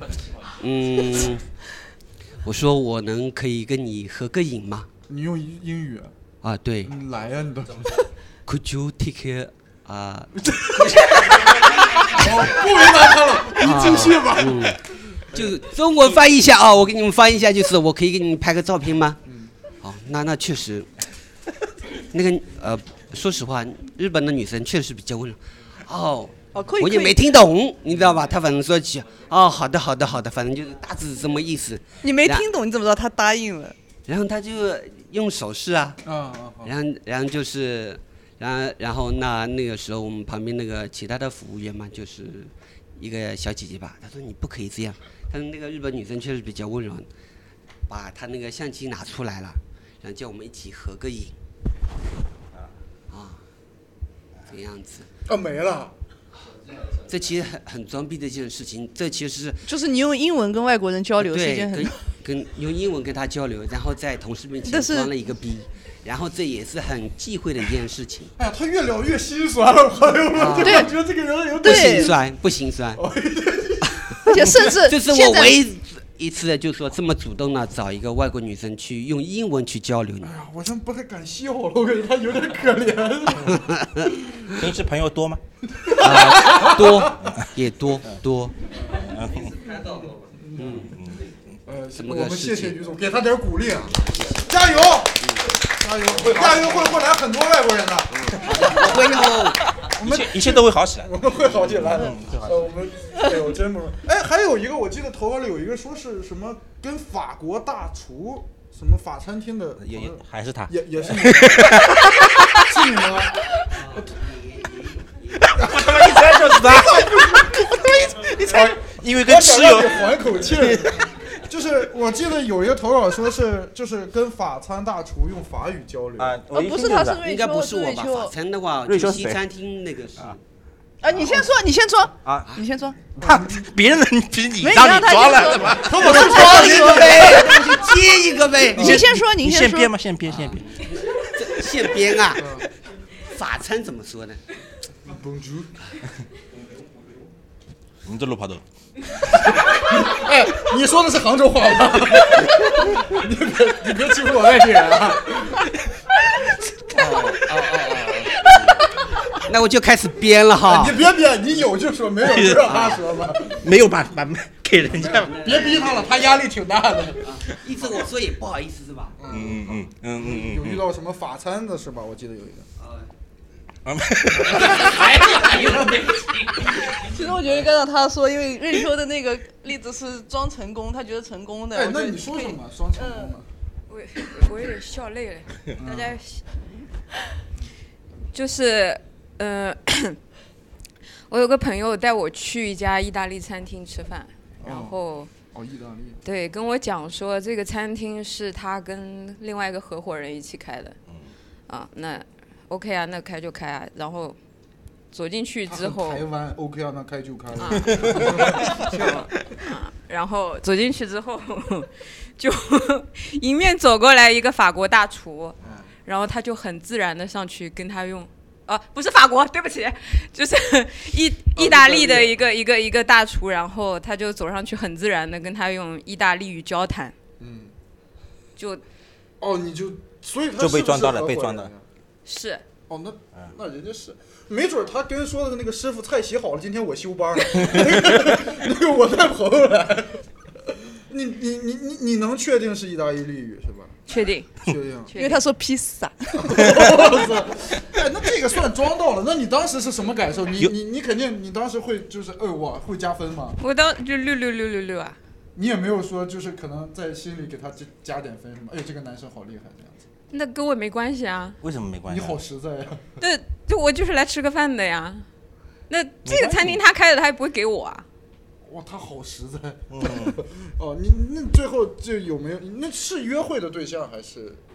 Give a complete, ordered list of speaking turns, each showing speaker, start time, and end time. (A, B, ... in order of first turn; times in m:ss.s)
0:00.6-0:01.4 A
0:02.4-0:04.9 A
0:05.1-0:06.1 B
0:06.4-0:06.9 A
0:06.8-0:08.0 B
0:08.4-0:12.5 A
0:10.5-0:10.9 B
0:12.0-0:14.8 B
0:13.6-0:19.2 A
0:19.2-0:19.5 B
0:19.8-0:20.9 A
0:22.1-0:32.5 A
0:26.5-0:27.2 C
0:32.0-0:33.7 C
0:34.1-0:36.0 A
0:36.0-0:36.7 B
0:36.6-0:47.1 A
0:47.9-0:51.3 A
0:53.1-0:53.4 A
0:54.5-0:55.1 A
0:55.3-0:55.9 B
0:57.0-0:59.6 A
0:59.6-1:02.0 C
1:01.2-1:08.3 A
1:04.6-1:05.1 C
1:08.4-1:12.2 B
1:10.3-1:10.9 A
1:10.6-1:10.9 C
1:11.6-1:12.2 C
1:11.6-1:13.0 A
1:13.0-1:14.6 B
1:14.3-1:15.6 C
1:14.7-1:20.3 A
1:20.2-1:23.6 B
1:23.4-1:24.3 A
1:24.6-1:25.4 D
1:25.8-1:27.2 B
1:26.0-1:28.6 A
1:28.8-1:29.1 B
1:29.0-1:29.6 D
1:30.2-1:30.8 B
1:30.6-1:31.0 A
1:31.0-1:31.2 D
1:31.6-1:38.9 B
1:32.0-1:32.8 A
1:33.7-1:35.5 A
1:36.2-1:36.9 A
1:38.2-1:39.7 A
1:39.9-1:42.6 D
1:40.0-1:51.9 B
1:49.8-1:52.6 D
1:52.6-1:53.4 B
1:53.7-1:55.3 A
1:55.5-2:01.0 D
1:55.6-1:56.0 B
1:56.7-1:57.5 B
1:58.4-2:06.4 B
2:06.2-2:07.2 D
2:06.5-2:08.3 C
2:07.2-2:10.4 A
2:08.8-2:09.4 D
2:11.0-2:13.1 C
2:11.1-2:11.4 D
2:12.2-2:12.5 D
2:13.1-2:16.1 D
2:13.2-2:13.6 B
2:14.6-2:17.6 C
2:15.7-2:17.7 B
2:16.0-2:19.0 A
2:18.8-2:19.9 C
2:18.8-2:20.6 D
2:20.2-2:22.6 A
2:22.4-2:22.6 B
2:23.2-2:24.4 A
2:25.0-2:25.7 B
2:28.0-2:28.6 D
2:29.4-2:35.6 B
2:36.9-2:38.5 B
2:38.4-2:38.8 A
2:39.4-2:41.0 A
2:40.6-2:43.6 B
2:42.3-2:42.6 D
2:42.6-2:43.0 A
2:43.6-2:45.4 D
2:45.0-2:46.2 A
2:45.2-2:47.4 B
2:47.2-2:49.2 A
2:49.2-2:52.7 B
2:49.3-2:50.8 D
2:52.8-2:53.1 A
2:53.8-2:55.2 D
2:54.6-2:54.9 B
2:55.5-2:55.7 B
2:56.9-3:02.4 C
3:01.7-3:03.4 B
3:03.0-3:03.4 C
3:03.9-3:06.5 E
3:05.8-3:06.2 B
3:08.3-3:10.2 E
3:11.3-3:15.3 E
3:14.6-3:15.0 B
3:15.5-3:16.2 B
3:16.2-3:20.9 E
3:21.7-3:24.4 E
3:25.1-3:26.2 E
3:25.7-3:29.2 B
3:27.6-3:47.1 E
3:27.9-3:28.3 D
3:35.6-3:35.9 B
3:41.6-3:42.4 B
3:47.4-3:47.7 B
3:48.6-3:48.8 E
3:49.4-3:51.8 B
3:50.6-3:51.7 D
3:52.2-3:52.6 E
3:52.9-4:04.0 B
4:04.1-4:05.4 E
4:04.6-4:05.1 B
4:05.2-4:06.7 C
4:06.4-4:13.6 B
4:13.6-4:15.2 E
4:15.5-4:20.0 B
4:20.3-4:21.6 E
4:21.6-4:22.4 D
4:22.0-4:23.1 B
4:23.2-4:25.2 E
4:25.9-4:28.0 E
4:26.3-4:26.8 D
4:28.6-4:34.6 B
4:29.9-4:30.4 D